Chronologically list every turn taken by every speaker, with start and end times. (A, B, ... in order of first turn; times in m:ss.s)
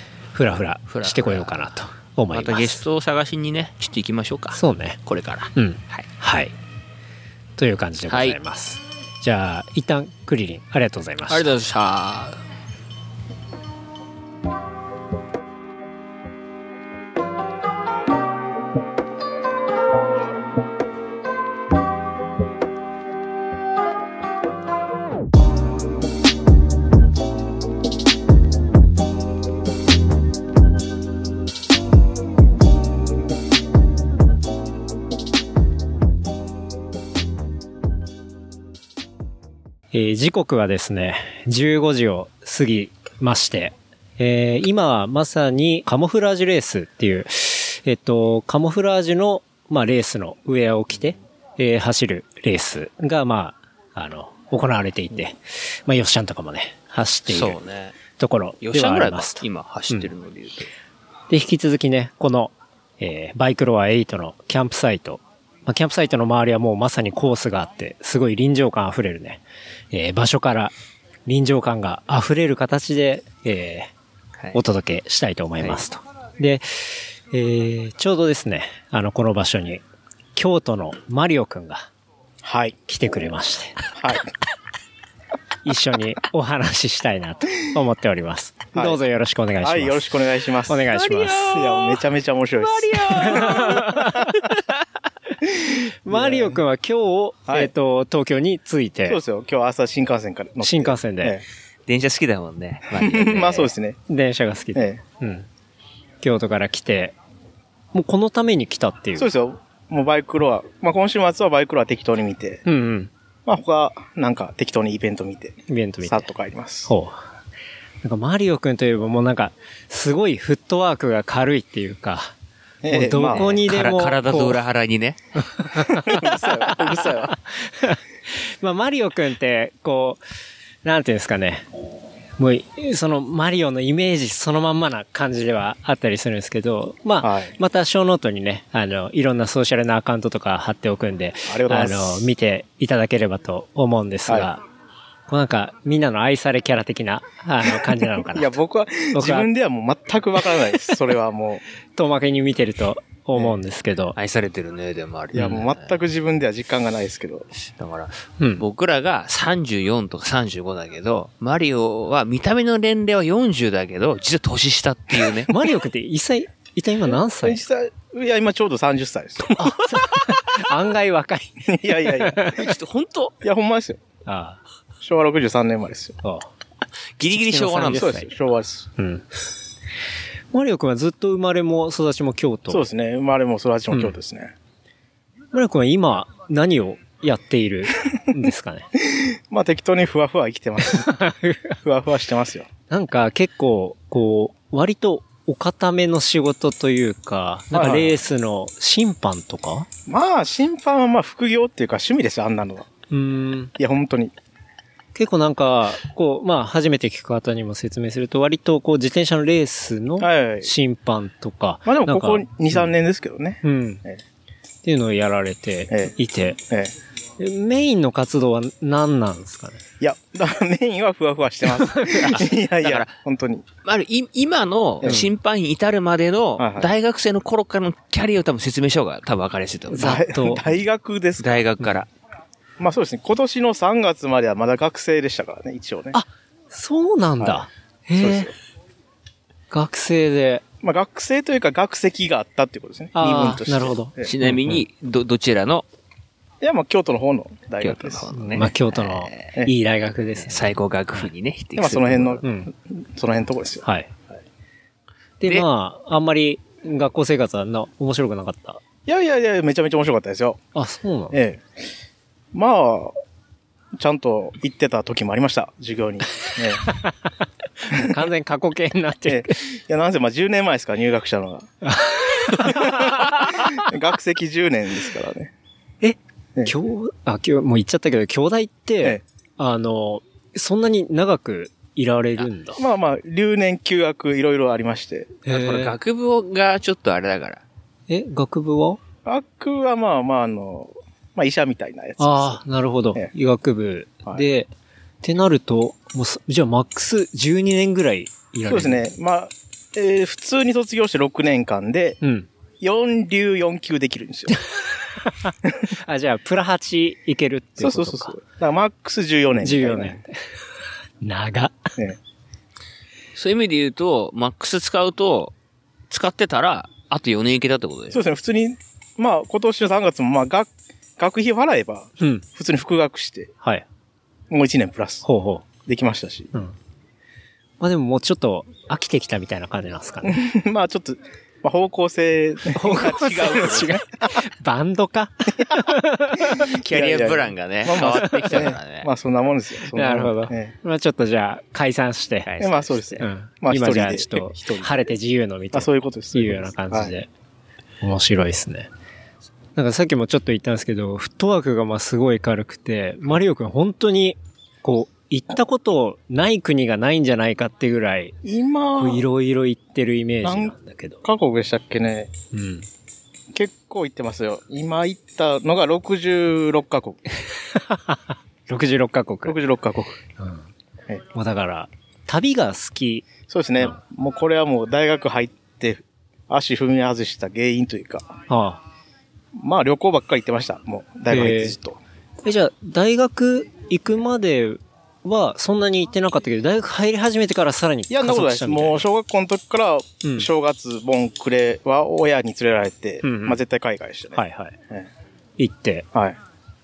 0:00.3-0:02.8 A
0:00.9-0:01.6 B
0:02.3-0:06.0 B
0:04.5-0:05.0 A
0:05.5-0:06.5 A
0:07.6-0:11.5 A
0:08.1-0:08.4 B
0:11.3-0:12.4 B
0:39.9-0:57.6 A
0:57.3-0:58.0 B
0:58.2-1:00.1 A
0:58.6-1:00.7 B
1:01.3-1:10.7 A
1:11.2-1:13.9 A
1:14.5-1:19.8 A
1:20.3-1:21.9 A
1:22.4-1:22.8 C
1:22.9-1:23.8 A
1:24.0-1:24.2 C
1:25.6-1:30.1 A
1:29.6-1:34.3 C
1:30.7-1:31.9 A
1:31.0-1:31.6 B
1:32.8-1:33.8 B
1:33.1-1:34.3 A
1:35.6-1:36.6 C
1:36.0-1:39.2 A
1:39.0-1:41.4 C
1:40.6-1:41.4 A
1:41.9-1:43.7 B
1:42.9-1:44.0 C
1:44.1-1:45.5 A
1:44.7-1:45.0 C
1:46.2-1:47.2 A
1:47.9-1:49.3 A
1:49.2-1:52.6 C
1:52.6-1:53.1 A
1:53.4-1:56.9 C
1:55.7-1:56.3 A
1:56.9-1:57.2 A
1:58.0-2:02.3 A
2:02.8-2:03.6 C
2:02.9-2:04.6 A
2:03.2-2:05.6 B
2:05.6-2:10.2 A
2:06.0-2:07.4 C
2:10.8-2:11.7 A
2:12.4-2:24.6 A
2:17.2-2:17.5 C
2:21.5-2:22.3 C
2:25.3-2:28.6 A
2:28.2-2:31.6 C
2:29.1-2:29.5 A
2:32.0-2:34.2 A
2:34.2-2:36.0 B
2:35.3-2:37.5 C
2:37.6-2:45.5 B
2:45.5-2:47.6 A
2:47.4-2:49.7 C
2:49.6-2:52.7 A
2:50.0-2:50.3 B
2:51.7-2:52.5 C
2:52.6-2:53.4 B
2:53.4-2:54.0 C
2:54.2-2:54.6 A
2:55.0-2:56.2 C
2:56.2-2:56.5 A
2:57.2-2:58.1 B
2:57.3-2:58.3 A
2:57.9-2:58.8 C
2:59.0-2:59.2 A
3:00.5-3:02.9 A
3:02.7-3:04.5 C
3:05.5-3:08.9 A
3:09.0-3:11.2 C
3:10.8-3:11.8 A
3:11.8-3:12.7 C
3:12.9-3:19.9 A
3:17.7-3:18.2 C
3:20.1-3:22.9 C
3:23.1-3:23.7 A
3:23.8-3:24.3 C
3:25.1-3:32.9 A
3:30.2-3:30.7 C
3:31.8-3:34.2 C
3:33.6-3:34.0 A
3:34.8-3:36.6 A
3:37.4-3:39.8 A
3:40.0-3:43.6 C
3:42.2-3:43.1 B
3:43.8-3:50.2 B
3:45.0-3:45.3 A
3:46.6-3:46.9 C
3:49.9-3:50.6 A
3:50.0-3:51.6 C
3:51.4-3:52.1 B
3:52.8-3:56.2 C
3:56.1-3:58.5 A
3:57.4-3:57.6 C
3:58.2-3:58.5 C
3:59.7-4:00.6 A
4:00.8-4:04.3 C
4:03.1-4:04.8 A
4:04.2-4:05.8 B
4:06.6-4:08.2 C
4:07.8-4:09.5 B
4:08.4-4:11.3 A
4:10.4-4:12.4 B
4:11.8-4:13.8 C
4:12.4-4:12.7 A
4:13.8-4:14.1 A
4:15.4-4:18.8 A
4:19.0-4:20.6 C
4:20.7-4:21.4 A
4:21.3-4:21.6 C
4:22.5-4:23.2 C
4:24.0-4:26.9 C
4:27.8-4:29.6 A
4:29.3-4:31.7 C
4:31.8-4:33.4 A
4:32.6-4:35.5 C
4:36.0-4:42.8 A
4:42.8-4:45.4 C
4:45.4-4:45.9 A
4:45.5-4:47.6 B
4:48.1-4:49.0 A
4:49.2-4:52.6 C
4:52.2-4:54.7 A
4:55.2-4:59.0 A
4:58.6-5:02.2 C
5:02.2-5:02.5 A
5:02.8-5:04.6 C
5:05.1-5:08.3 A
5:07.8-5:10.2 C
5:09.6-5:10.4 A
5:11.2-5:11.9 A
5:13.4-5:15.5 B
5:16.1-5:18.2 B
5:18.1-5:23.5 C
5:24.5-5:25.2 C
5:25.2-5:25.7 A
5:25.8-5:26.5 C
5:27.8-5:30.4 A
5:30.2-5:34.4 C
5:32.7-5:36.7 A
5:32.9-5:34.0 B
5:36.6-5:40.7 C
5:36.7-5:39.1 B
5:38.1-5:38.8 A
5:39.9-5:42.6 A
5:42.4-5:43.2 B
5:42.6-5:45.1 C
5:43.2-5:47.3 A
5:45.7-5:47.1 C
5:48.0-5:48.9 A
5:49.7-5:58.4 A
5:58.4-5:59.2 C
5:59.0-6:01.2 A
6:00.4-6:02.3 C
6:02.5-6:02.9 A
6:03.5-6:07.2 C
6:07.5-6:09.6 A
6:09.4-6:10.2 C
6:10.4-6:10.7 A
6:11.3-6:14.0 A
6:13.4-6:18.3 C
6:18.5-6:18.8 A
6:19.5-6:22.0 C
6:21.3-6:21.8 A
6:22.4-6:29.0 A
6:28.1-6:35.1 C
6:30.2-6:30.5 A
6:33.2-6:33.6 A
6:34.3-6:34.8 A
6:35.6-6:36.1 A